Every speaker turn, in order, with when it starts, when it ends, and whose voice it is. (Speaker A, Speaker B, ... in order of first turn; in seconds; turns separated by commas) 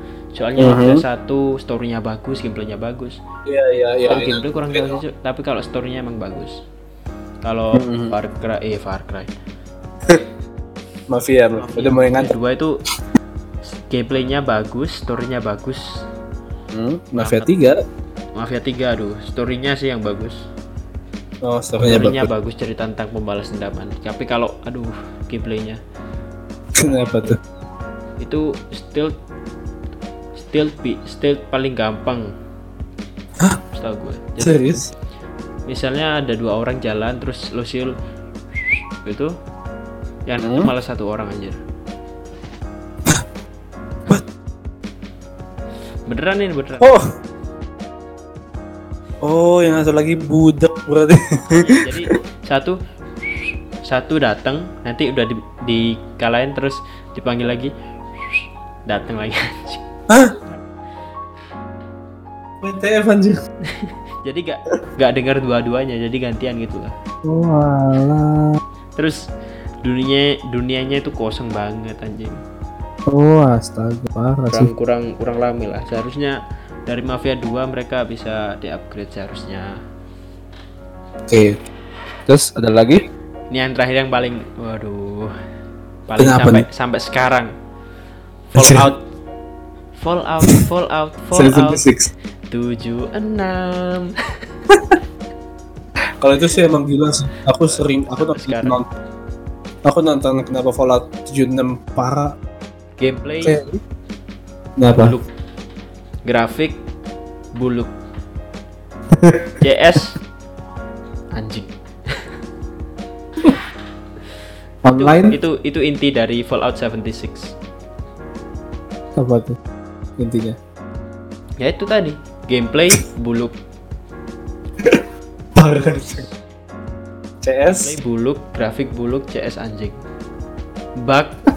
Speaker A: 0.3-3.2, Speaker B: 0.6-1.0, Speaker B: 3.5-5.0, Speaker A: 4.1-6.5, Speaker A: 7.5-9.3, Speaker B: 7.8-8.1, Speaker B: 11.1-12.3, Speaker A: 11.6-12.8, Speaker A: 13.8-15.9, Speaker B: 16.7-17.8, Speaker A: 17.2-17.5, Speaker A: 18.4-20.4, Speaker B: 21.4-22.3, Speaker A: 21.9-25.8, Speaker A: 26.8-27.4, Speaker B: 26.8-27.4, Speaker A: 28.2-29.1, Speaker A: 30.4-32.2, Speaker A: 33.7-34.7, Speaker B: 34.4-34.9, Speaker A: 35.7-37.9, Speaker A: 38.6-39.3, Speaker A: 40.3-41.6, Speaker B: 40.4-40.7, Speaker A: 46.1-46.9, Speaker B: 49.2-51.8, Speaker A: 51.6-57.7, Speaker A: 58.3-60.6, Speaker B: 62.6-63.4, Speaker A: 63.7-66.9, Speaker B: 67.2-68.6, Speaker A: 69.8-72.3, Speaker B: 73.1-74.7, Speaker A: 74.5-79.7, Speaker B: 81.3-81.6, Speaker B: 82.3-83.0, Speaker A: 83.5-85.3, Speaker A: 86.1-87.5, Speaker B: 86.2-86.7, Speaker A: 88.5-89.0, Speaker B: 88.6-88.9, Speaker A: 90.0-91.9, Speaker B: 91.3-92.1, Speaker A: 92.5-94.1, Speaker B: 94.7-95.0, Speaker B: 96.2-98.9, Speaker A: 97.6-98.8, Speaker B: 99.8-102.3, Speaker A: 103.0-103.6, Speaker B: 103.4-103.8, Speaker B: 104.8-105.2, Speaker A: 105.0-105.3, Speaker A: 106.3-106.8, Speaker A: 107.6-107.9, Speaker B: 109.2-109.5, Speaker A: 109.6-110.2, Speaker A: 111.4-112.3, Speaker B: 114.8-115.4, Speaker A: 115.0-117.5, Speaker B: 119.2-119.6, Speaker B: 120.2-120.6, Speaker A: 121.6-123.5, Speaker B: 125.6-126.3, Speaker B: 127.4-127.9, Speaker A: 127.7-130.0, Speaker A: 131.0-131.3